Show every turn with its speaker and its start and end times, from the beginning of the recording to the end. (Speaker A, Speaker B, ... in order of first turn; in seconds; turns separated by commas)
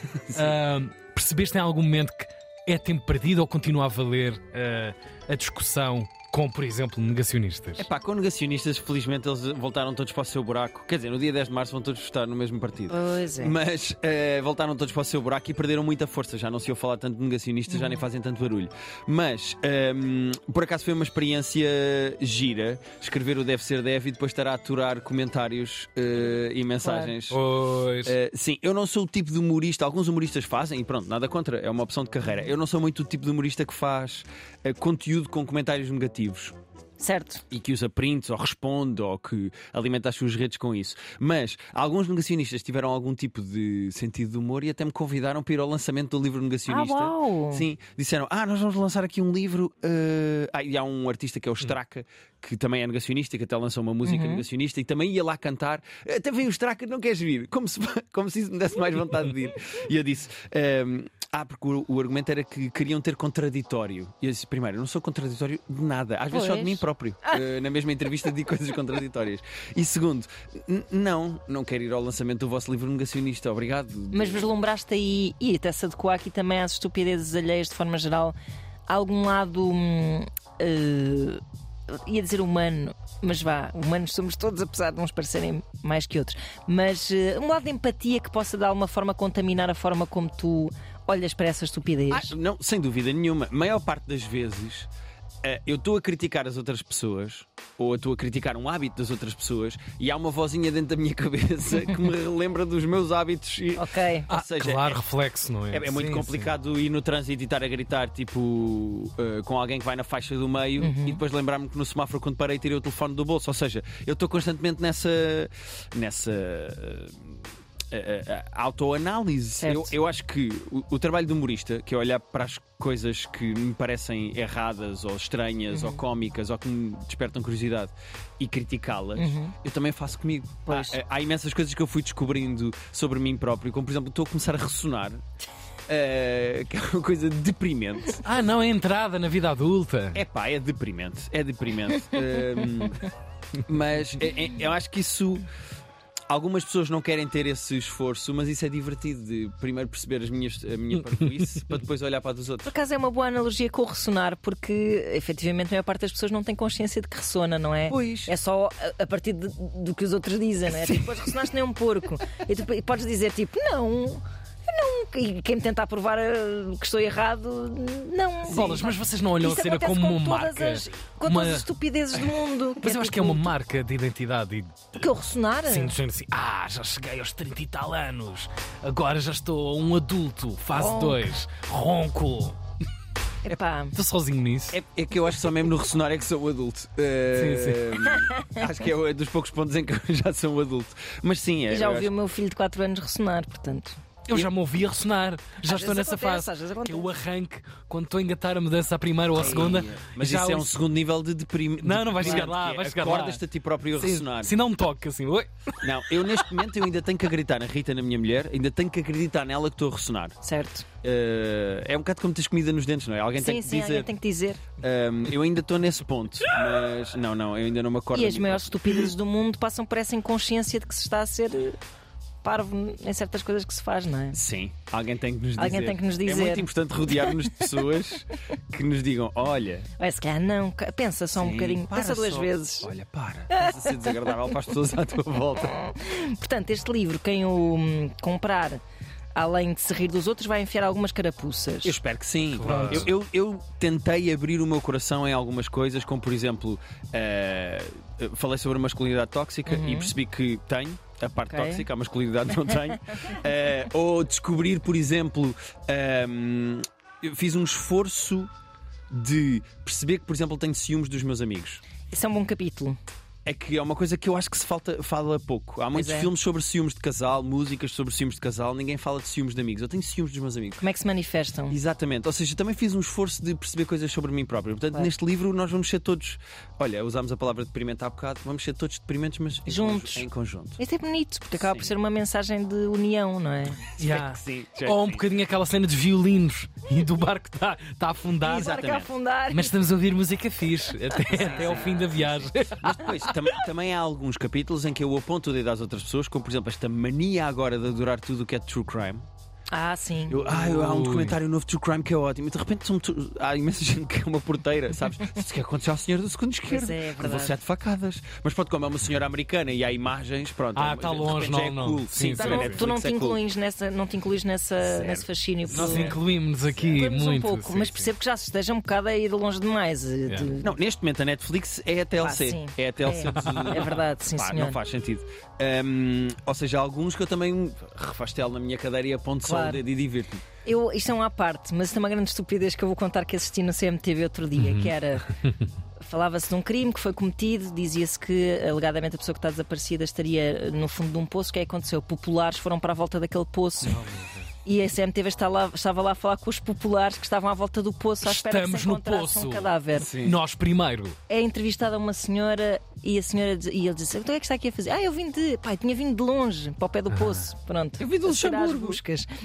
Speaker A: 0.3-7.8, Speaker B: 7.8-27.4, Speaker C: 12.9-13.6, Speaker C: 17.7-18.0, Speaker C: 26.8-27.1, Speaker A: 27.3-28.1, Speaker B: 28.0-36.5, Speaker C: 37.0-37.4, Speaker B: 37.5-74.5, Speaker C: 46.6-47.6, Speaker C: 54.0-54.4, Speaker C: 66.3-67.4, Speaker C: 74.1-78.3, Speaker C: 78.9-92.3, Speaker B: 92.1-94.9, Speaker B: 95.4-105.0, Speaker C: 103.8-104.3, Speaker A: 104.3-106.5, Speaker B: 105.7-117.3, Speaker C: 110.8-111.2, Speaker B: 117.9-135.2, Speaker C: 119.6-119.9, Speaker C: 125.7-126.0, Speaker C: 129.2-129.5, Speaker C: 130.7-131.0, Speaker B: 135.9-138.2, Speaker A: 138.2-140.2, Speaker B: 140.1-143.1, Speaker B: 143.7-145.4, Speaker B: 146.3-152.7, Speaker C: 152.6-173.5, Speaker B: 157.9-158.3, Speaker B: 160.7-161.4, Speaker A: 168.4-171.7, Speaker A: 172.8-174.7, Speaker C: 174.9-175.9, Speaker A: 175.7-182.6, Speaker C: 180.8-181.2, Speaker C: 183.4-183.9, Speaker A: 183.9-184.8, Speaker B: 184.7-192.1, Speaker A: 187.3-188.0, Speaker C: 191.7-194.0, Speaker A: 194.3-200.7, Speaker C: 195.6-197.1, Speaker B: 199.3-204.5, Speaker A: 201.8-203.4, Speaker C: 202.2-202.5, Speaker A: 203.9-206.5, Speaker B: 205.8-210.4, Speaker C: 210.4-210.8, Speaker B: 211.0-214.1, Speaker C: 213.3-214.6, Speaker B: 214.8-219.1, Speaker C: 218.1-221.8, Speaker C: 222.4-224.4, Speaker B: 224.3-229.9, Speaker C: 225.6-227.7, Speaker C: 230.0-232.9, Speaker B: 231.3-235.7, Speaker C: 233.5-234.2, Speaker C: 235.6-238.8, Speaker C: 239.3-241.9, Speaker B: 241.8-258.5, Speaker A: 242.6-243.1, Speaker C: 249.7-250.1, Speaker C: 251.5-251.9, Speaker B: 259.1-261.8, Speaker C: 262.1-263.0, Speaker B: 263.4-270.8, Speaker C: 265.9-266.3, Speaker C: 270.8-271.8, Speaker B: 271.7-280.8, Speaker C: 279.7-280.3, Speaker C: 280.8-283.9, Speaker B: 281.6-281.9, Speaker B: 284.0-285.2, Speaker A: 284.0-288.7, Speaker C: 288.4-289.7, Speaker B: 288.4-289.1, Speaker A: 289.5-293.3, Speaker B: 291.3-299.2, Speaker C: 299.7-300.4, Speaker B: 300.3-313.4, Speaker A: 300.4-301.4, Speaker C: 306.7-307.6, Speaker A: 310.7-312.8, Speaker C: 312.4-316.1, Speaker B: 314.8-316.1, Speaker A: 315.7-318.1, Speaker C: 316.8-320.7, Speaker A: 320.3-320.6, Speaker B: 320.6-330.4, Speaker C: 322.2-324.8, Speaker A: 323.2-323.8, Speaker C: 329.4-329.8, Speaker C: 330.6-335.3, Speaker A: 334.6-334.9, Speaker C: 336.0-344.0, Speaker A: 343.8-344.5, Speaker C: 344.6-350.1, Speaker A: 348.2-351.1, Speaker B: 349.9-350.4, Speaker C: 351.3-359.3, Speaker A: 357.1-357.4, Speaker B: 358.0-359.0